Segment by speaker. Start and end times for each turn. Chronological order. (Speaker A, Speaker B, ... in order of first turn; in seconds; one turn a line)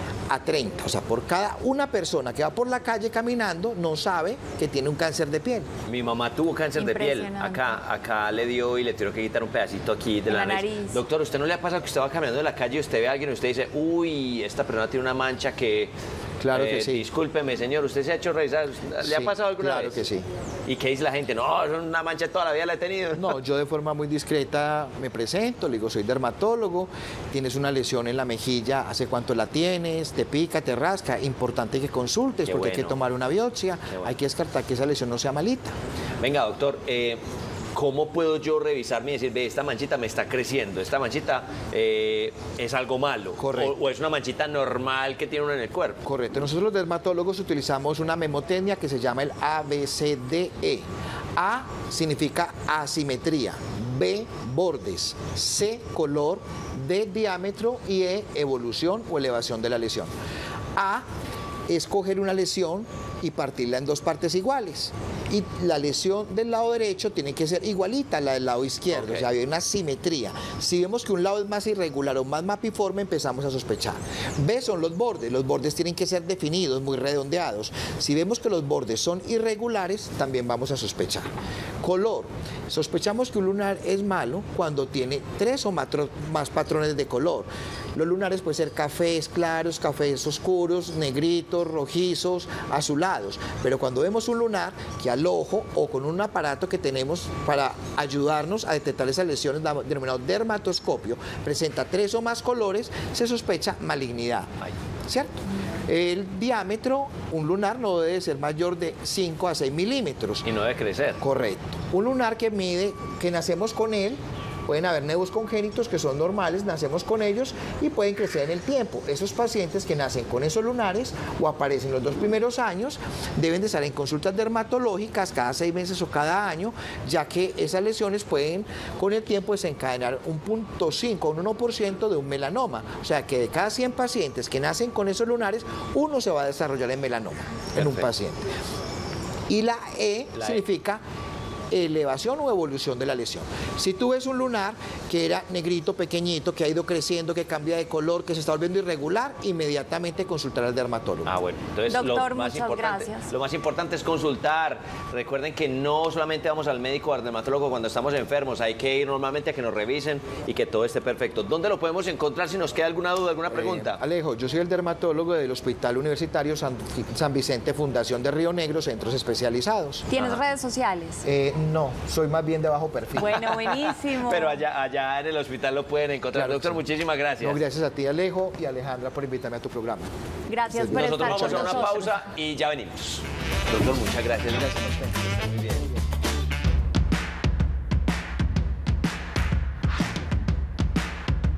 Speaker A: 0.3-5.7
Speaker B: 5.9-15.9
Speaker C: 6.8-7.8
Speaker C: 10.3-11.0
Speaker A: 16.4-17.1
Speaker B: 16.5-20.0
Speaker A: 19.0-20.3
Speaker B: 20.7-23.3
Speaker A: 23.1-35.7
Speaker B: 32.5-33.0
Speaker B: 36.2-37.2
Speaker B: 37.7-46.0
Speaker A: 43.4-43.7
Speaker A: 46.0-50.8
Speaker A: 51.4-60.1
Speaker A: 60.8-61.0
Speaker A: 61.7-81.3
Speaker B: 68.9-69.2
Speaker A: 81.8-104.5
Speaker A: 105.1-110.5
Speaker B: 110.4-111.2
Speaker A: 111.2-138.5
Speaker B: 137.8-138.1
Speaker A: 139.5-141.0
Speaker B: 140.3-140.6
Speaker A: 141.7-151.3
Speaker B: 151.2-164.0
Speaker C: 151.9-153.3
Speaker A: 163.5-170.1
Speaker C: 170.1-171.2
Speaker A: 171.2-173.7
Speaker C: 173.2-174.6
Speaker B: 173.7-177.6
Speaker A: 176.3-176.8
Speaker A: 177.4-180.1
Speaker C: 180.5-182.1
Speaker A: 180.7-182.1
Speaker B: 180.9-185.9